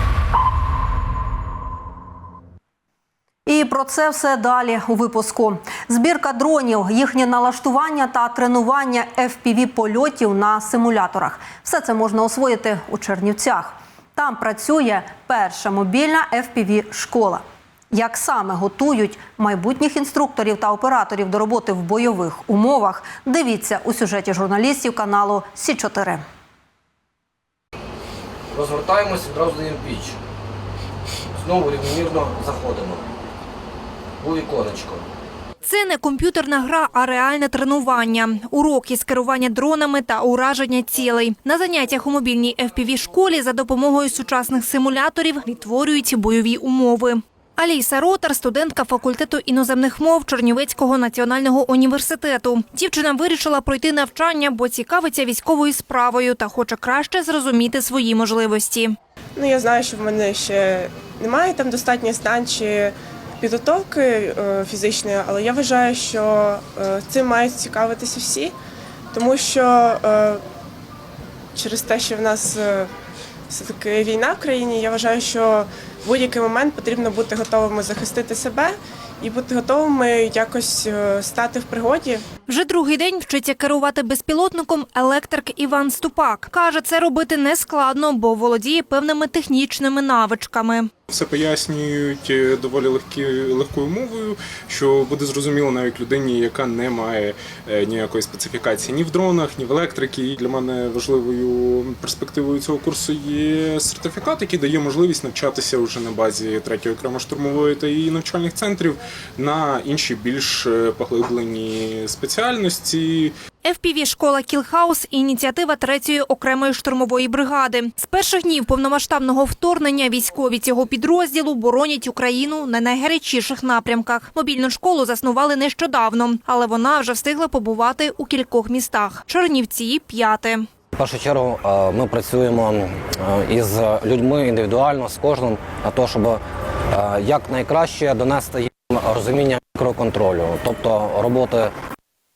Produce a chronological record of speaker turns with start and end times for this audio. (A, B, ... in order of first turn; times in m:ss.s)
0:03.5-0:26.2 A
0:28.5-0:30.2 B
0:31.4-0:33.0 B
0:34.2-0:35.0 B
0:35.6-0:59.0 C
0:59.4-1:08.5 D
1:09.1-1:10.4 D
1:11.6-1:12.9 D
1:13.5-1:22.2 D
1:22.5-1:30.9 C
1:31.1-1:53.3 E
1:53.6-2:10.7 C
2:10.9-2:21.7 B